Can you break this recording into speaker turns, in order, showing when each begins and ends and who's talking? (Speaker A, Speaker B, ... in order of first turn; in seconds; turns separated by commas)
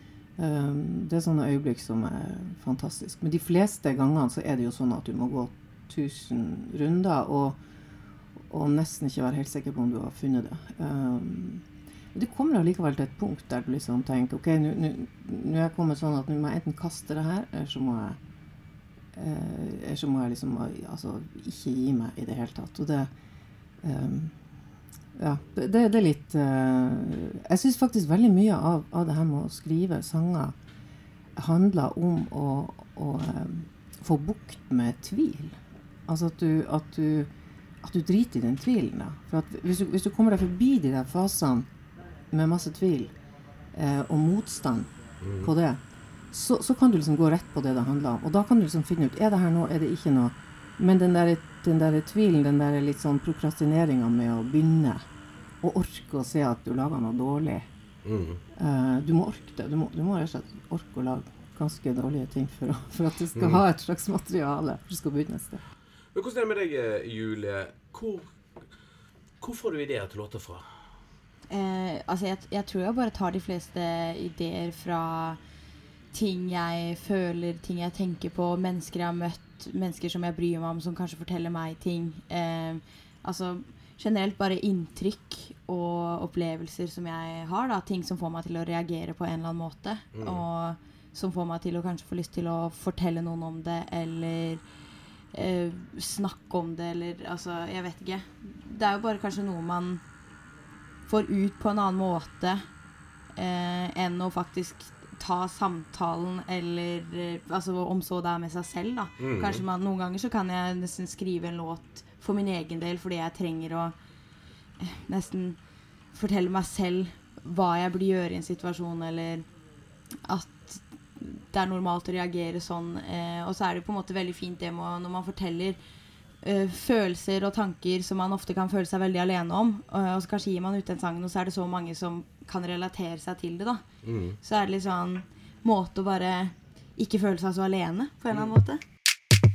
Speaker A: 0.4-7.6, Speaker A: 8.5-18.2, Speaker A: 19.1-23.1, Speaker A: 23.8-24.4, Speaker A: 25.1-30.5, Speaker A: 31.4-37.3, Speaker A: 37.8-41.7, Speaker A: 42.3-43.1, Speaker A: 43.7-44.9, Speaker B: 45.2-45.5, Speaker A: 45.4-55.1, Speaker A: 55.6-57.7, Speaker B: 58.0-58.4, Speaker A: 58.5-65.6, Speaker B: 63.4-63.6, Speaker B: 66.1-68.3, Speaker B: 69.4-70.6, Speaker C: 71.5-75.4, Speaker C: 76.1-94.6, Speaker B: 90.1-90.4, Speaker C: 95.3-100.0, Speaker C: 101.1-102.6, Speaker C: 103.4-113.9, Speaker B: 109.2-109.6, Speaker C: 114.8-115.6, Speaker C: 116.1-119.5, Speaker C: 120.2-125.8, Speaker C: 126.4-133.8, Speaker B: 134.0-134.4, Speaker C: 134.4-138.8